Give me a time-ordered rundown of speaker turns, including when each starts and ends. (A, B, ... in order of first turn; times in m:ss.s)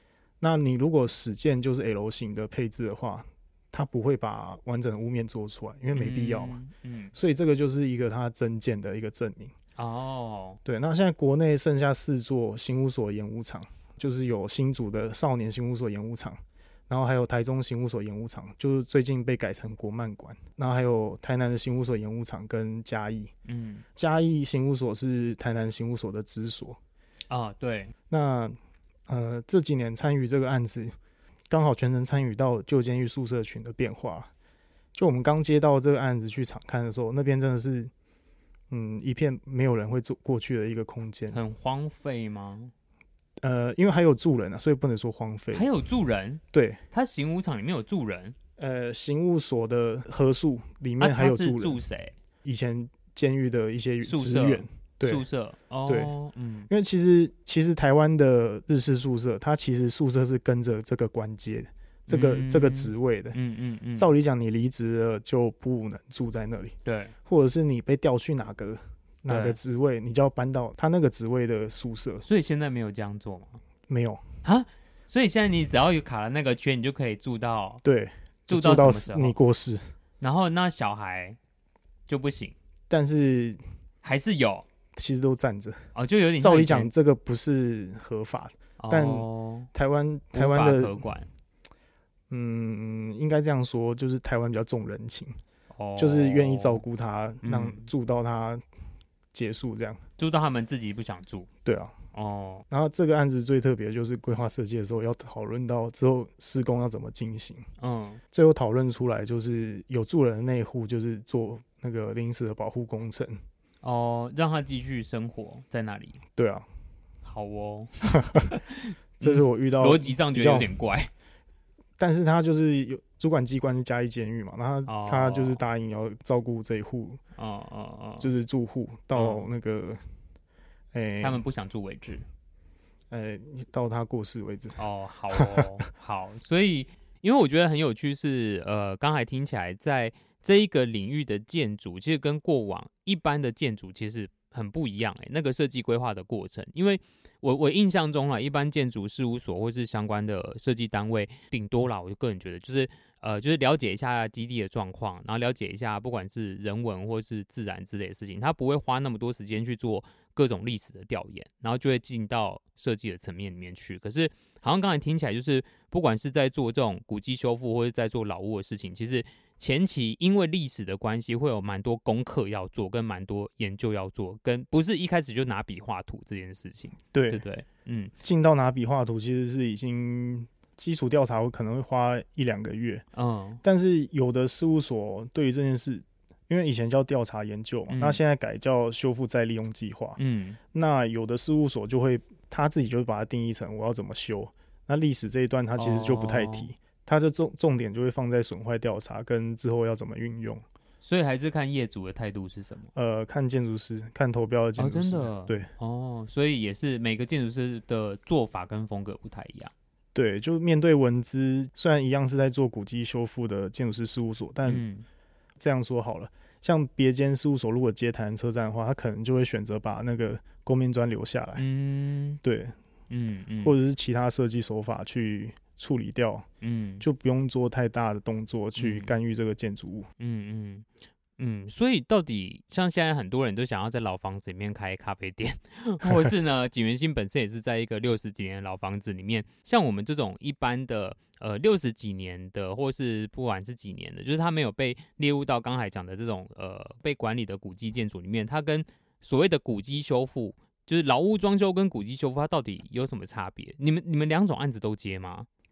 0:00.4-0:06.6 A
0:05.9-0:07.1 B
0:07.1-0:09.5 A
0:09.8-0:10.6 B
0:10.6-0:23.3 A
0:23.4-0:23.8 B
0:23.9-0:26.8 A
0:27.3-0:27.9 B
0:28.1-0:28.6 A
0:29.1-0:30.9 A
0:31.5-0:34.3 A
0:34.9-0:37.9 A
0:38.7-0:41.4 A
0:41.3-0:42.7 B
0:43.4-0:45.7 A
0:45.5-0:48.3 B
0:46.5-0:46.8 A
0:48.6-0:51.8 A
0:51.0-0:52.1 B
0:52.4-0:55.2 A
0:54.0-0:56.7 B
0:55.9-0:56.1 A
0:56.7-1:03.4 A
1:02.1-1:04.1 B
1:03.9-1:12.2 A
1:06.8-1:07.1 B
1:09.3-1:09.6 B
1:12.2-1:13.6 B
1:13.9-1:14.2 A
1:14.4-1:17.8 B
1:17.8-1:19.9 A
1:18.5-1:19.3 B
1:20.2-1:21.4 B
1:22.1-1:22.5 B
1:22.9-1:23.6 A
1:24.0-1:24.6 B
1:24.9-1:31.0 A
1:25.9-1:26.9 B
1:28.8-1:29.7 B
1:30.3-1:31.3 B
1:32.3-1:35.4 A
1:35.7-1:36.8 B
1:36.0-1:38.6 A
1:37.4-1:37.9 B
1:39.3-1:40.0 A
1:40.2-1:41.5 B
1:41.6-1:42.0 A
1:42.1-1:42.6 B
1:42.7-1:47.6 A
1:47.8-1:48.2 B
1:48.3-1:53.4 A
1:53.8-1:56.2 B
1:56.4-1:56.7 A
1:57.2-2:01.1 B
1:58.0-1:58.4 A
1:59.2-2:00.7 A
2:02.0-2:07.2 A
2:04.8-2:05.6 B
2:07.4-2:08.3 B
2:08.2-2:10.0 A
2:09.1-2:09.5 B
2:10.9-2:11.4 A
2:11.2-2:12.2 B
2:13.1-2:14.8 A
2:14.8-2:58.1 B
2:15.3-2:15.7 A
2:57.1-2:57.4 A
2:58.2-3:03.0 A
3:03.1-3:03.6 B
3:03.6-3:10.2 A
3:07.9-3:08.2 B
3:10.2-3:10.6 B
3:10.7-3:20.6 A
3:15.8-3:16.7 B
3:21.0-3:22.9 B
3:22.9-3:25.7 A
3:24.8-3:29.7 B
3:30.1-3:34.8 A
3:34.6-3:35.0 B
3:35.6-3:41.6 A
3:41.6-3:42.4 B
3:42.4-3:42.8 A
3:43.1-3:43.7 B
3:43.6-3:46.4 A
3:46.6-3:47.0 B
3:47.0-3:50.1 A
3:48.8-3:49.2 B
3:50.2-3:50.8 B
3:51.4-4:15.5 B
3:56.0-3:56.3 A